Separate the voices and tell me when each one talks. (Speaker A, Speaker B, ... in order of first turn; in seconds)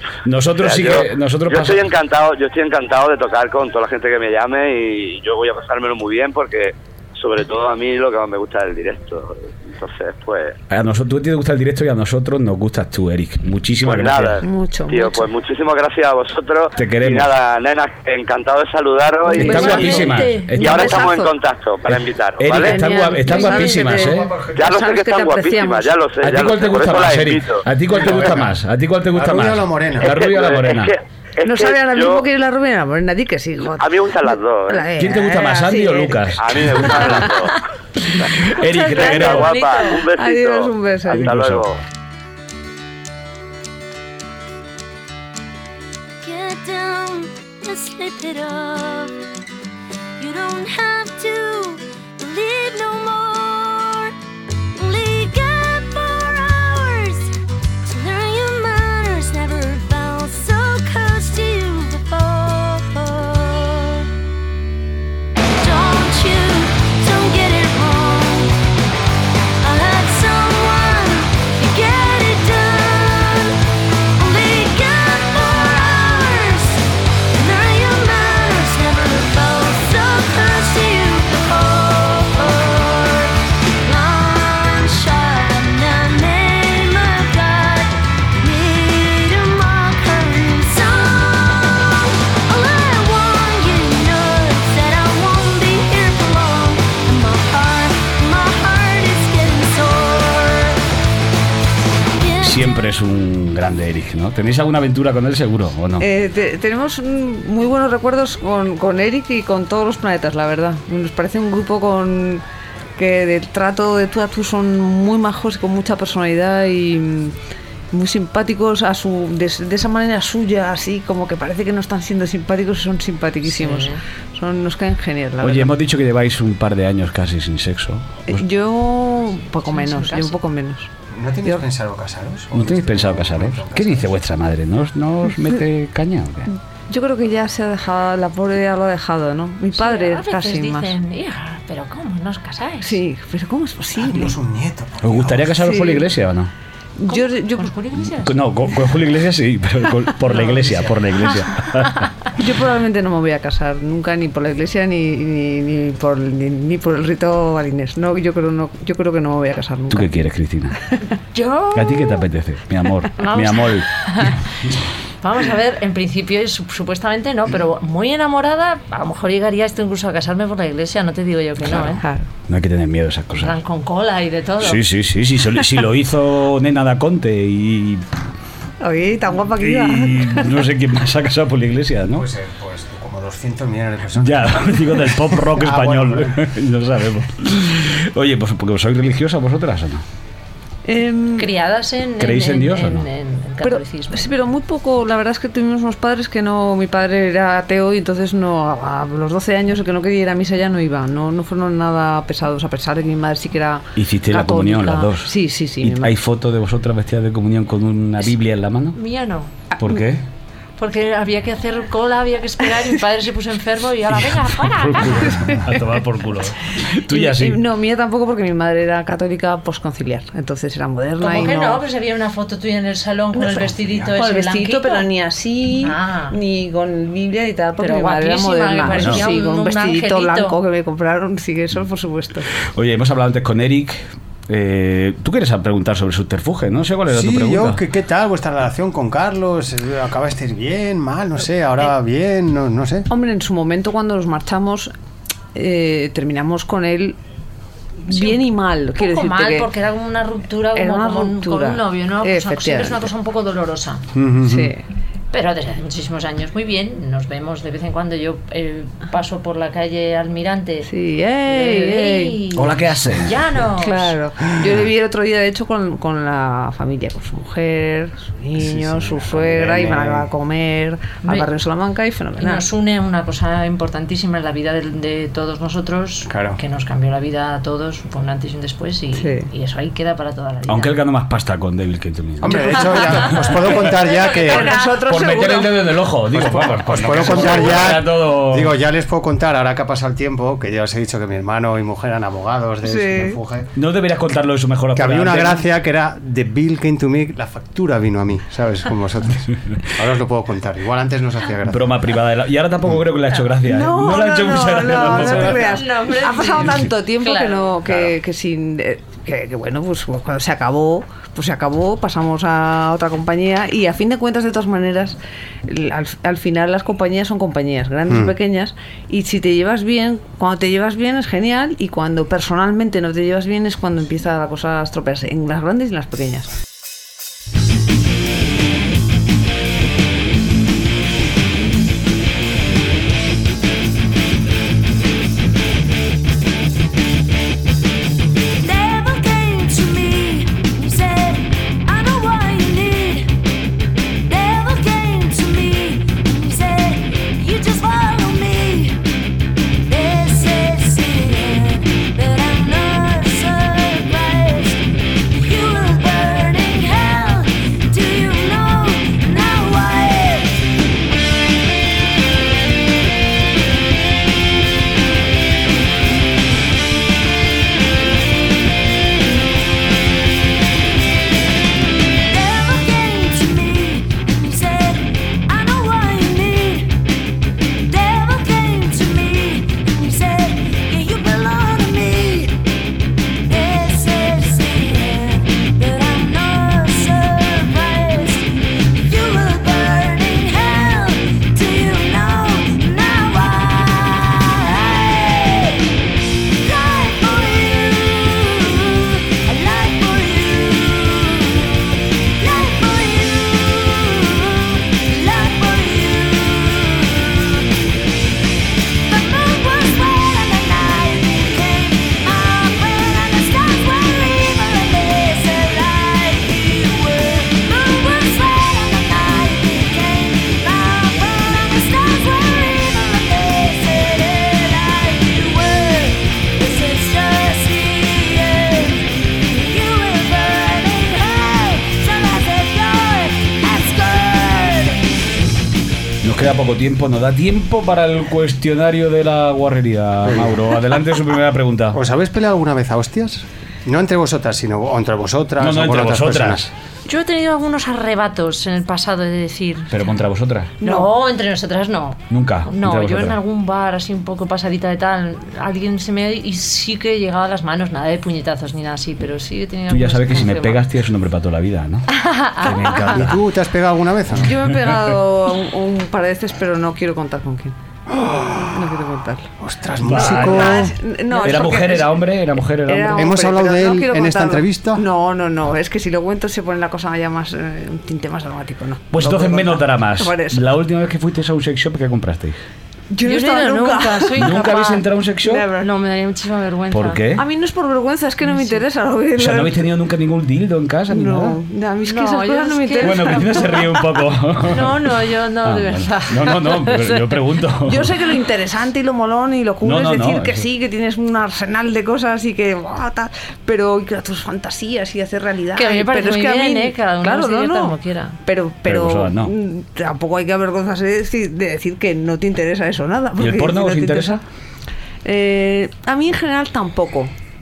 Speaker A: 0.2-1.8, 10.7-14.4, 16.7-17.3, 19.3-21.0, 22.4-24.4, 26.2-30.9, 35.0-37.2, 38.0-39.5, 41.1-41.6, 102.4-106.0, 125.4-128.4, 132.5-136.5, 145.0-146.5, 148.1-152.3, 159.9-160.8, 161.7-164.3, 171.7-172.0, 172.5-173.5, 174.6-178.0, 179.6-182.2, 184.2-190.0, 192.2-193.1, 204.0-209.0, 209.8-210.2, 214.5-217.6, 228.9-229.2, 232.7-237.8, 262.5-263.4, 280.7-283.8, 284.6-288.7, 293.8-295.6, 301.7-305.7, 436.2-442.0, 445.6-446.7, 449.9-450.7, 452.3-453.4, 459.9-463.4, 470.0-473.4, 479.1-482.6, 484.4-485.6, 486.9-487.4, 489.4-491.6, 493.0-495.1, 495.6-498.1, 499.8-500.6, 508.9-509.5, 513.4-514.4
Speaker B: 0.6-10.6, 13.8-19.6, 20.6-22.9, 24.5-27.6, 30.0-32.3, 33.8-34.9, 36.4-37.6, 38.9-41.8
Speaker C: 14.4-15.3, 19.3-21.3, 22.5-26.0, 31.4-37.5, 39.9-41.3, 106.0-112.4, 113.0-117.3, 117.9-125.7, 128.3-130.9, 136.9-140.9, 142.8-144.3, 145.6-146.1, 147.0-147.7, 152.4-160.1, 172.0-172.3, 178.8-180.6, 190.8-191.5, 193.6-206.1, 217.1-221.8, 223.3-232.5, 243.1-244.9, 245.5-247.2, 248.0-249.7, 250.7-253.1, 254.4-254.8, 260.8-262.4, 263.8-272.6, 279.2-279.5, 282.5-283.1, 283.8-287.8, 292.8-293.4, 303.6-326.5, 450.8-451.1, 464.4-467.8, 468.5-469.5, 470.2-472.2, 472.8-480.6, 483.1-484.6, 485.4-485.9, 487.4-489.9, 491.1-493.9, 497.8-514.4, 515.2-517.3
Speaker D: 19.4-20.6, 23.3-23.8, 38.6-40.0, 123.5-124.0, 129.7-130.3, 139.7-143.0, 147.1-148.4, 161.3-161.8, 163.2-164.4, 165.2-172.0, 173.4-174.8, 191.4-194.3, 208.9-209.5, 210.8-215.5, 221.2-225.1, 225.8-226.4, 227.8-230.6, 248.1-248.4, 248.9-254.0, 255.3-260.9, 261.4-264.1, 271.2-271.5, 272.4-280.9, 305.0-307.7, 447.1-450.2, 450.8-460.9, 462.2-463.0, 483.2-485.1, 485.7-487.2, 488.4-488.8, 492.0-493.9, 494.6-497.3, 505.7-508.4
Speaker E: 24.1-24.6, 27.9-28.4, 29.1-30.1, 131.1-134.1, 144.0-145.7, 182.1-186.4, 237.1-243.1, 254.1-254.7, 268.6-270.3, 276.3-276.6, 282.4-284.7, 286.4-293.7, 294.9-301.9, 318.1-318.3, 440.2-440.6, 441.9-446.7, 463.1-464.5, 468.2-468.5, 469.6-470.9, 473.1-475.0
Speaker F: 46.2-49.1, 50.2-54.1, 54.7-57.3, 57.8-64.1, 65.6-68.6, 69.6-73.6, 74.2-100.8, 102.2-102.6, 338.6-343.3, 344.3-349.0, 349.9-360.6, 372.3-377.0, 377.8-382.6, 383.5-395.8, 396.6-407.7, 409.1-435.0